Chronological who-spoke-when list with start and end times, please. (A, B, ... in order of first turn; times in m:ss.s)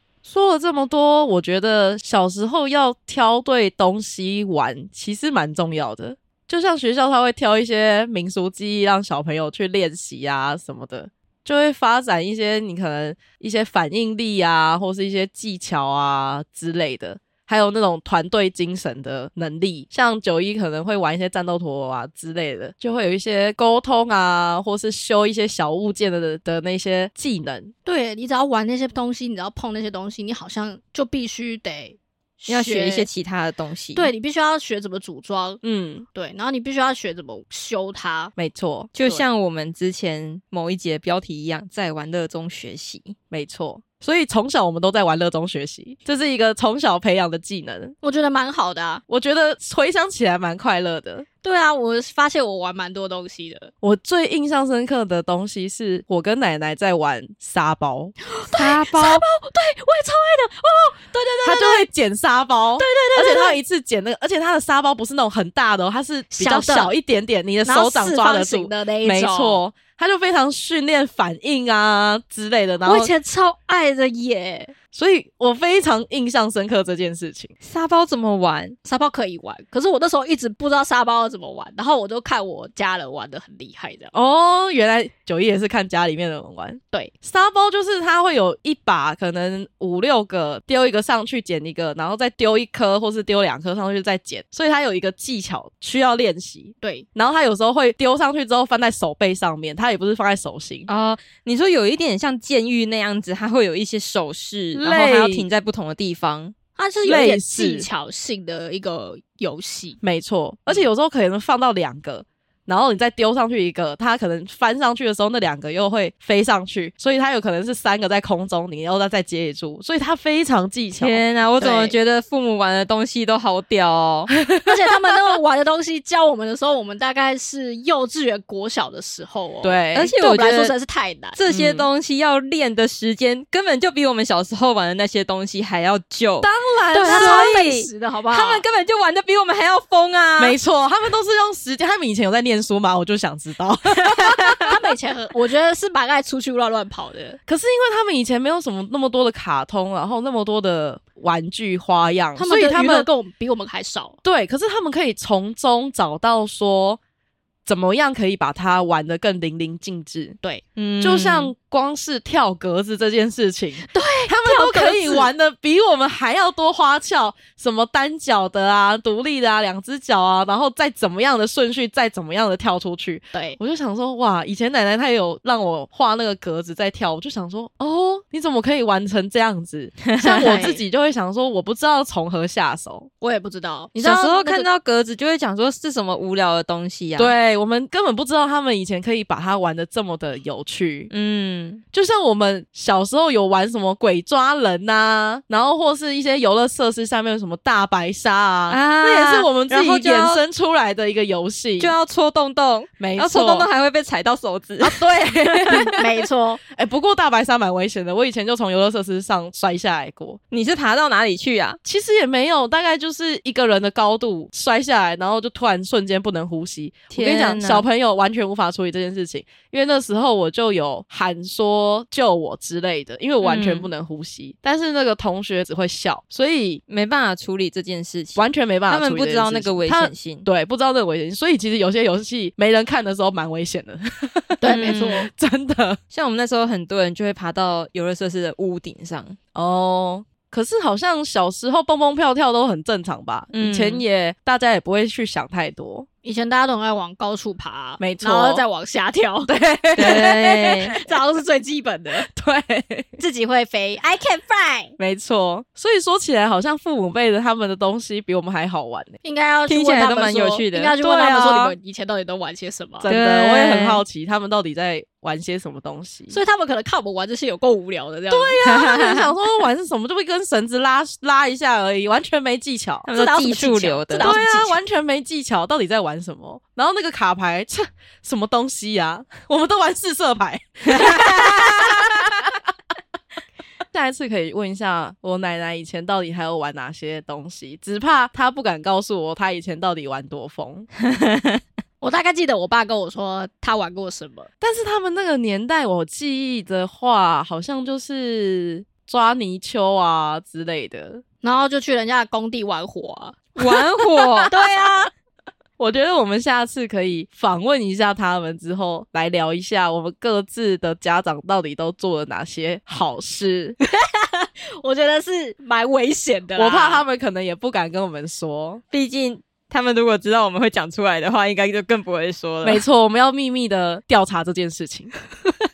0:00.2-0:27.7 A
0:27.8-0:33.1 B
0:32.5-0:34.1 C
0:33.9-0:35.6 B
0:35.6-0:36.0 A
0:36.1-0:38.3 B
0:38.4-0:38.9 A
0:38.9-0:43.1 C
0:43.3-0:47.9 A
0:48.0-0:49.0 B
0:49.1-0:51.2 A
0:51.4-0:53.7 B
0:53.8-0:58.1 A
0:58.3-1:01.9 B
0:58.5-0:59.2 C
1:01.4-1:13.1 A
1:02.8-1:03.6 B
1:06.3-1:06.9 B
1:07.6-1:09.6 B
1:12.8-1:14.7 B
1:14.9-1:17.5 A
1:17.6-1:18.7 C
1:18.8-1:24.1 B
1:24.1-1:40.9 A
1:40.9-1:46.5 C
1:44.7-1:45.5 A
1:46.8-1:50.0 B
1:47.0-1:47.9 A
1:50.0-2:01.2 A
2:01.0-2:04.3 C
2:01.6-2:01.9 B
2:04.4-2:04.7 A
2:04.6-2:11.4 B
2:09.6-2:10.1 A
2:09.9-2:10.7 C
2:11.4-2:20.6 C
2:11.5-2:11.9 A
2:16.4-2:17.5 A
2:16.9-2:18.6 B
2:20.4-2:24.7 A
2:24.0-2:24.7 C
2:24.6-2:27.4 B
2:27.5-2:33.1 A
2:32.4-2:34.2 B
2:34.2-2:37.0 A
2:37.6-2:40.4 A
2:40.8-2:41.5 C
2:41.0-3:03.1 A
2:43.9-2:45.3 B
2:53.3-2:53.6 B
3:00.1-3:00.6 C
3:00.2-3:00.8 B
3:03.2-3:04.7 B
3:04.0-3:07.3 C
3:07.2-3:11.1 A
3:11.1-3:11.8 C
3:11.9-3:21.9 A
3:18.7-3:20.4 C
3:21.8-3:26.0 C
3:23.0-3:23.7 A
3:24.8-3:26.0 A
3:25.9-3:26.6 B
3:26.7-3:30.4 A
3:30.5-3:31.8 C
3:31.8-3:46.8 A
3:37.1-3:37.8 C
3:43.4-3:43.9 C
3:46.9-3:50.4 C
3:48.4-3:56.0 A
3:54.6-3:55.3 B
3:54.7-3:55.3 C
3:56.1-3:59.4 C
3:59.5-4:06.1 A
4:03.5-4:04.0 C
4:06.2-4:09.5 B
4:08.0-4:08.6 A
4:09.5-4:11.0 A
4:10.0-4:10.9 C
4:10.9-4:12.3 B
4:12.3-4:13.2 A
4:13.2-4:14.9 B
4:15.0-4:19.1 A
4:19.2-4:23.1 B
4:19.7-4:20.9 C
4:21.0-4:21.7 A
4:23.0-4:26.4 A
4:23.1-4:24.0 C
4:26.3-4:28.8 B
4:28.3-4:33.1 A
4:28.6-4:29.3 C
4:33.0-4:34.6 C
4:33.1-4:34.8 B
4:34.1-4:42.6 A
4:41.0-4:41.3 C
4:43.9-4:50.9 A
4:51.1-4:51.6 C
4:52.0-4:54.5 B
4:54.6-5:01.2 A
5:01.4-5:03.6 B
5:03.6-5:04.5 C
5:04.5-5:05.1 B
5:05.8-5:13.8 A
5:13.9-5:17.0 B
5:16.5-5:18.8 A
5:18.9-5:22.8 C
5:22.6-5:25.1 A